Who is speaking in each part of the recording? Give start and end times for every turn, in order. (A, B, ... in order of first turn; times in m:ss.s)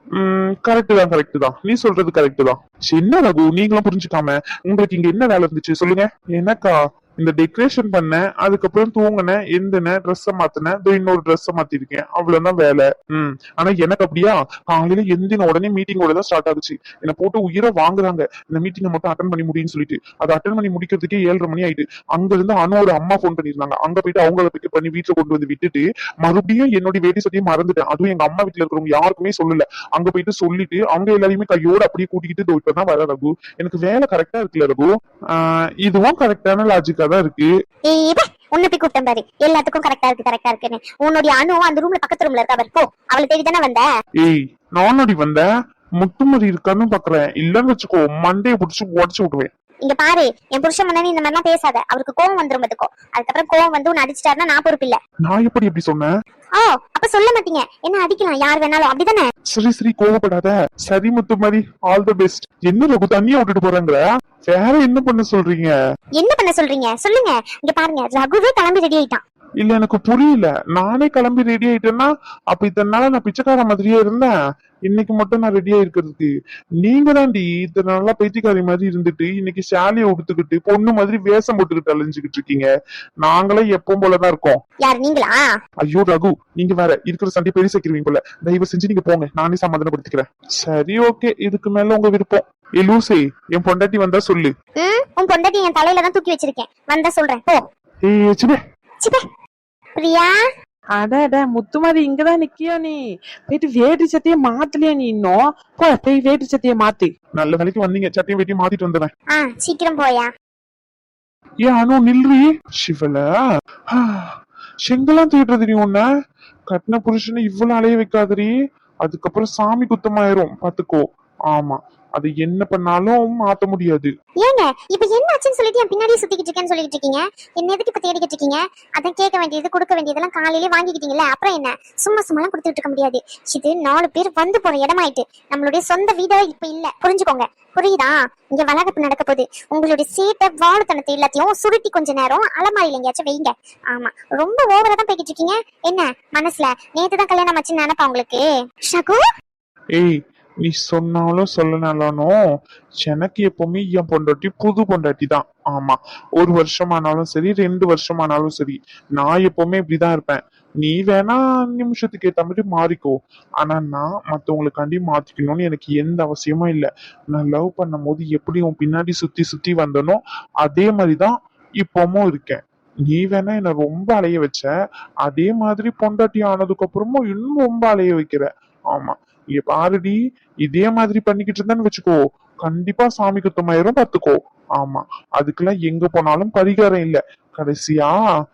0:00.2-0:37.5 A
0:37.9-0:43.8 B
0:44.2-0:45.4 A
0:46.0-0:49.5 A
0:49.8-0:55.0 B
0:55.2-0:56.1 A
0:56.6-0:59.3 B
0:59.5-1:05.7 A
1:06.2-1:09.2 B
1:09.6-1:14.3 A
1:14.9-1:16.3 A
1:16.8-1:22.7 A
1:23.2-1:24.6 A
1:24.8-1:25.4 B
1:25.8-1:34.5 A
1:34.8-1:37.6 B
1:38.0-1:38.6 A
1:40.0-1:40.3 B
1:41.0-1:47.1 C
1:47.4-1:49.1 A
1:49.4-1:50.3 B
1:51.6-1:53.2 A
1:53.9-1:54.3 A
1:54.9-1:56.0 A
1:56.7-1:58.5 A
1:59.0-2:04.1 A
2:04.4-2:29.2 B
2:30.0-2:32.3 A
2:33.0-2:54.7 A
2:55.2-3:08.1 A